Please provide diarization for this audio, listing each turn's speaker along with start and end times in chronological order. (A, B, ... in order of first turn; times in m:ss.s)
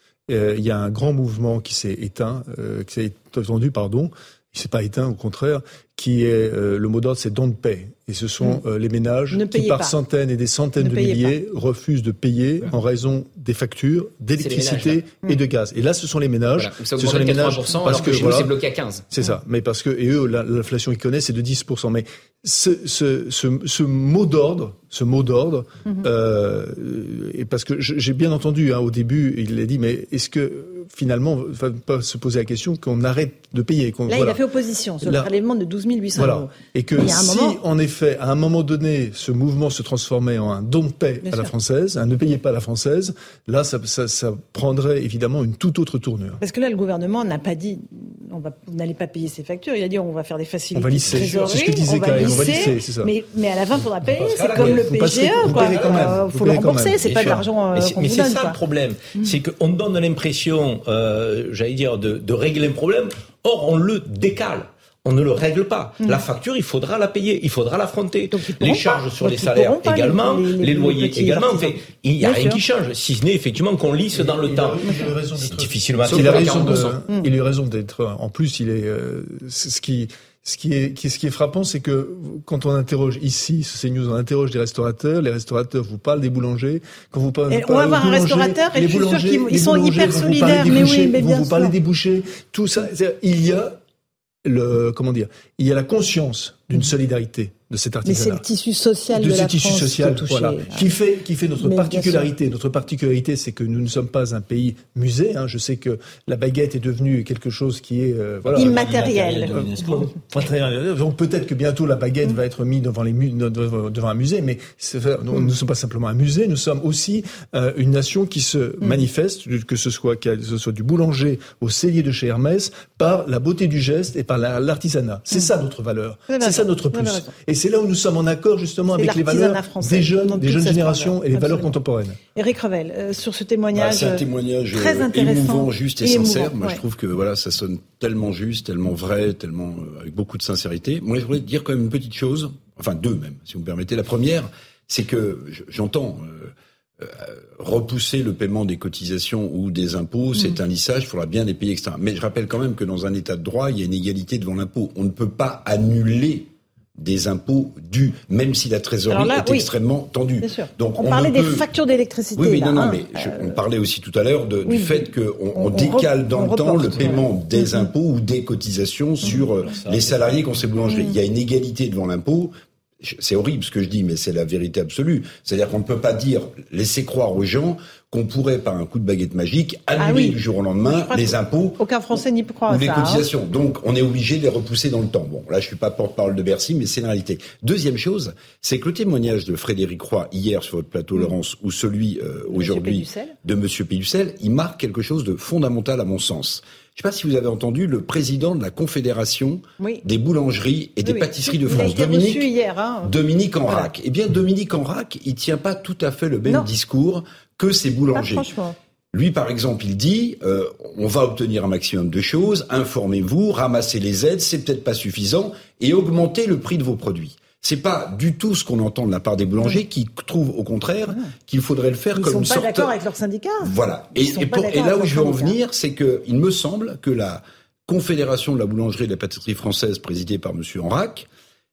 0:00.3-0:18.5 A
0:09.3-0:09.9 B
0:10.8-0:11.4 B
0:14.4-0:15.0 C
0:16.6-0:19.0 C
0:19.1-0:34.4 A
0:34.1-0:37.6 B
0:35.0-0:35.3 A
0:36.2-0:46.4 A
0:41.2-0:41.5 B
0:46.4-0:58.6 B
0:50.7-0:53.1 A
0:54.1-0:56.2 D
0:54.2-0:57.4 A
0:57.0-1:16.9 D
1:08.3-1:12.6 B
1:14.1-1:33.8 A
1:14.8-1:15.1 B
1:16.1-1:17.0 C
1:27.5-1:31.7 B
1:34.4-1:38.4 A
1:38.0-1:40.9 B
1:39.1-1:49.6 A
1:41.6-1:42.3 B
1:48.5-1:50.2 D
1:48.6-1:50.1 B
1:50.3-2:12.2 A
2:06.3-2:07.3 B
2:08.9-2:11.7 B
2:12.3-2:16.8 B
2:13.7-2:41.6 E
2:39.1-2:39.7 B
2:40.4-2:43.6 B
2:42.3-3:01.8 E
2:44.6-2:47.9 B
2:49.2-2:50.6 D
2:50.9-2:51.2 B
3:00.0-3:00.4 B
3:00.9-3:03.2 B
3:02.7-3:22.5 E
3:12.5-3:13.3 B
3:21.0-3:23.1 B
3:23.0-3:28.5 E
3:23.6-3:23.9 B
3:28.1-3:28.8 B
3:29.1-3:42.9 E
3:42.1-3:45.6 B
3:43.6-3:51.3 E